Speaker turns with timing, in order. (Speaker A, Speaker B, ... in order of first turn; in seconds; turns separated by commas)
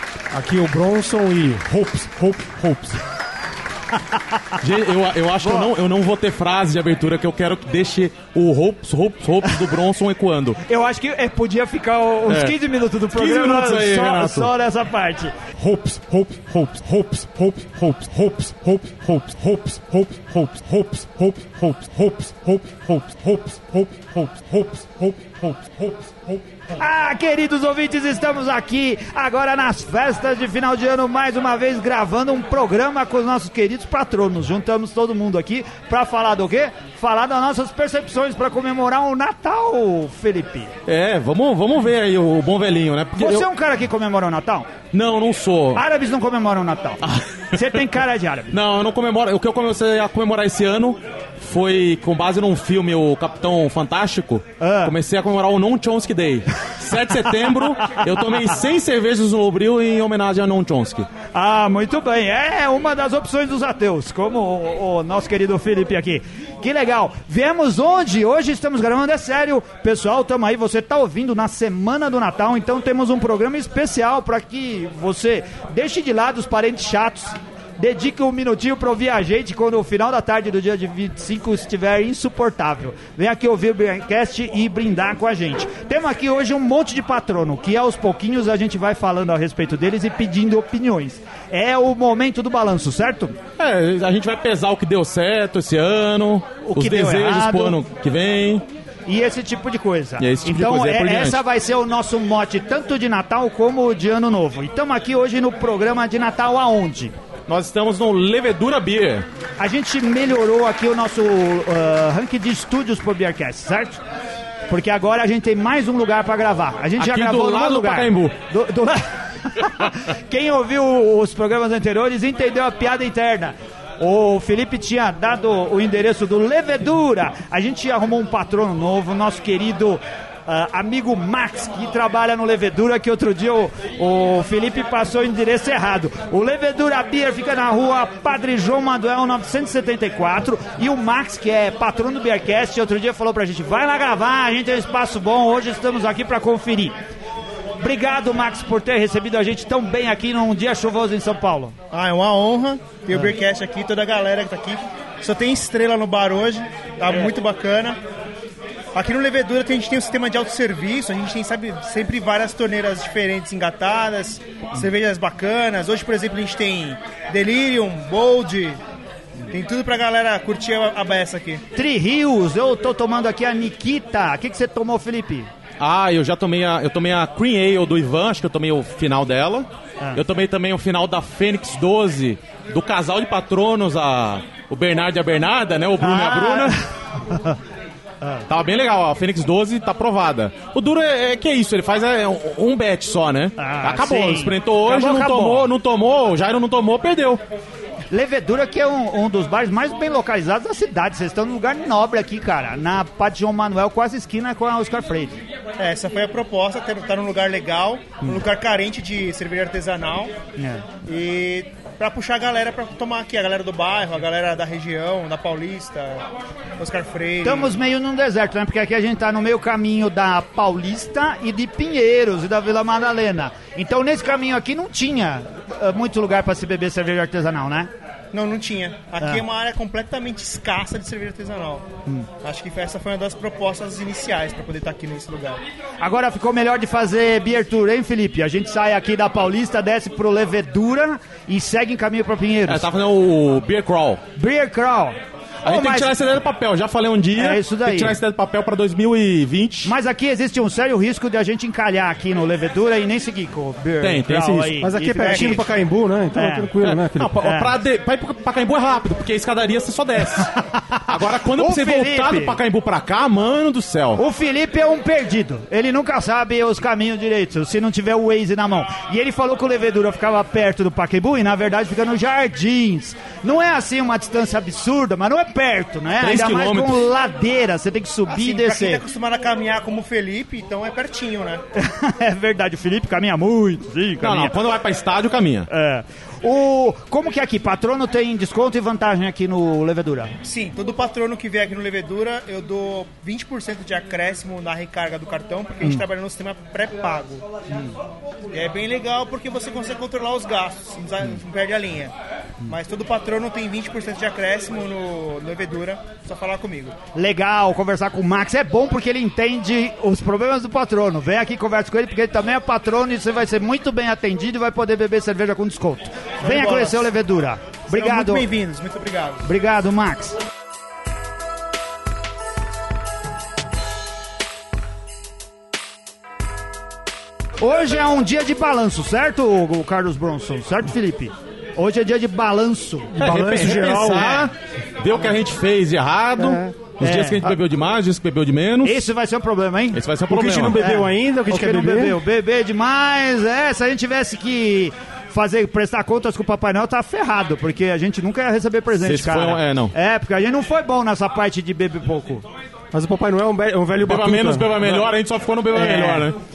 Speaker A: 0.3-3.0, Speaker B: 4.6-10.6, Speaker C: 5.4-5.7, Speaker C: 10.7-15.3, Speaker B: 12.3-12.6, Speaker B: 13.1-14.5, Speaker B: 15.6-23.3, Speaker A: 15.9-16.3, Speaker A: 23.2-23.9, Speaker B: 24.0-24.4, Speaker A: 24.5-25.2, Speaker C: 26.8-40.7, Speaker B: 40.9-43.5, Speaker C: 43.2-44.7, Speaker B: 44.9-45.8, Speaker C: 45.8-47.0, Speaker B: 47.0-47.7, Speaker C: 47.5-48.5, Speaker B: 48.5-61.1, Speaker C: 54.6-55.0, Speaker C: 61.3-93.3, Speaker B: 93.6-98.7, Speaker C: 96.7-97.8, Speaker C: 99.1-107.1, Speaker B: 100.2-101.4, Speaker B: 107.5-109.3, Speaker C: 109.6-114.0, Speaker C: 114.7-146.9, Speaker B: 117.0-118.3, Speaker C: 147.8-151.8, Speaker D: 151.9-158.0, Speaker D: 158.9-168.8, Speaker D: 169.5-171.6, Speaker C: 171.8-175.5, Speaker B: 175.8-186.8, Speaker C: 186.0-187.6, Speaker B: 188.5-197.4, Speaker C: 193.6-195.7, Speaker C: 198.1-205.3, Speaker D: 205.8-210.3, Speaker C: 210.6-210.9, Speaker D: 211.0-216.2, Speaker D: 216.8-217.8, Speaker C: 217.4-227.9, Speaker D: 228.3-231.9, Speaker D: 232.4-235.6, Speaker C: 236.0-242.9, Speaker B: 242.7-244.2, Speaker C: 244.4-246.1, Speaker B: 245.6-249.9, Speaker C: 247.4-248.2, Speaker C: 249.8-255.7, Speaker B: 254.0-254.8, Speaker A: 254.8-257.4, Speaker D: 255.1-255.6, Speaker C: 256.3-256.7, Speaker B: 256.8-264.2, Speaker C: 257.4-257.7, Speaker C: 261.1-262.6, Speaker C: 264.2-279.0, Speaker B: 276.2-277.1, Speaker D: 278.3-281.6, Speaker C: 281.8-284.5, Speaker B: 284.2-285.7, Speaker C: 285.7-290.3, Speaker D: 290.4-297.4, Speaker D: 298.5-302.1, Speaker D: 302.7-307.0, Speaker C: 307.1-318.5, Speaker D: 316.4-317.1, Speaker D: 317.9-319.5, Speaker C: 319.4-320.4, Speaker C: 327.6-334.4, Speaker A: 333.2-334.5, Speaker B: 333.2-339.1, Speaker A: 336.4-336.7, Speaker C: 337.0-337.6, Speaker C: 338.8-340.0, Speaker B: 339.9-340.8, Speaker A: 340.3-342.2, Speaker C: 340.8-352.4, Speaker B: 349.0-349.9, Speaker A: 352.9-355.0, Speaker B: 354.0-356.4, Speaker C: 355.7-356.3